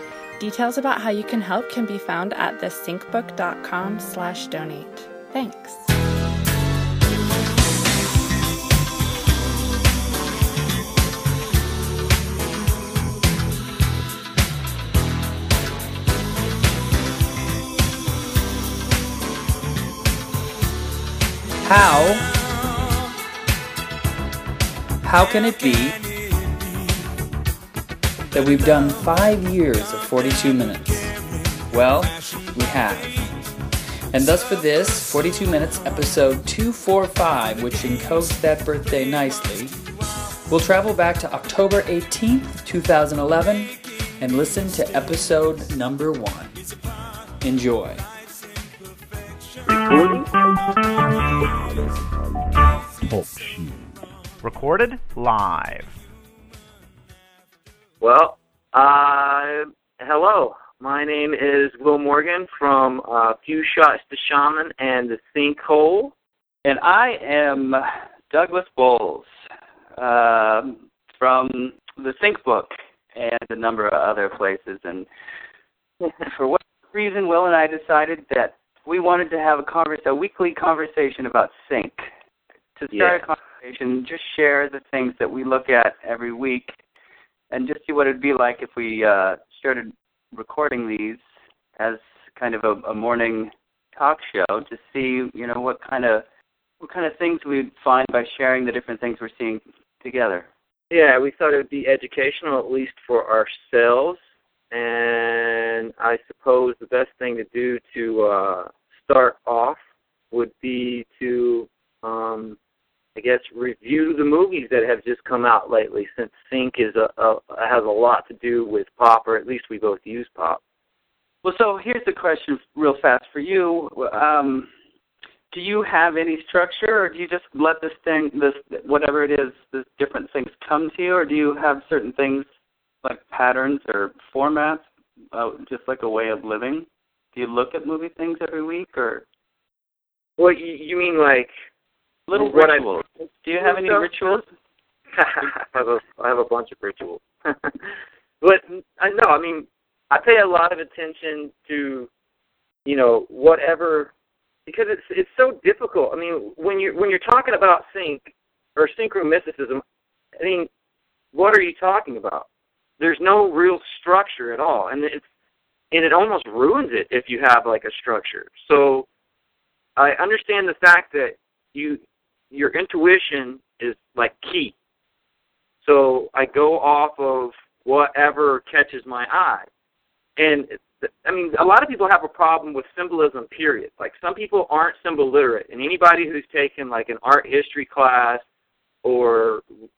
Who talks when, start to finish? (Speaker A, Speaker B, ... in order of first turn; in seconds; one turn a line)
Speaker A: 0.4-5.9
Speaker B: 21.6-22.3
Speaker B: 25.0-25.9
Speaker B: 28.3-31.1
Speaker B: 31.7-33.2
Speaker B: 34.1-39.8
Speaker B: 40.5-46.6
Speaker B: 47.4-48.1
Speaker C: 52.9-56.0
Speaker D: 58.0-66.1
Speaker E: 66.6-69.3
Speaker E: 70.0-75.1
Speaker E: 76.2-82.1
Speaker E: 82.8-86.8
Speaker D: 82.9-83.2
Speaker E: 87.5-91.2
Speaker E: 91.8-96.2
Speaker E: 96.8-100.5
Speaker D: 100.9-104.2
Speaker D: 104.7-109.8
Speaker D: 110.3-112.5
Speaker D: 113.2-120.6
Speaker E: 121.4-124.7
Speaker E: 125.5-132.4
Speaker E: 133.0-139.2
Speaker D: 140.4-141.5
Speaker E: 142.3-144.5
Speaker D: 142.3-142.8
Speaker D: 143.6-144.3
Speaker D: 145.1-152.1
Speaker D: 152.8-154.1
Speaker D: 154.7-159.8
Speaker D: 160.4-160.7
Speaker D: 161.3-162.4
Speaker D: 163.0-165.2
Speaker D: 165.9-169.1
Speaker D: 170.0-172.0
Speaker D: 172.5-174.7
Speaker D: 175.8-179.7
Speaker D: 180.4-188.4
Speaker D: 189.0-189.6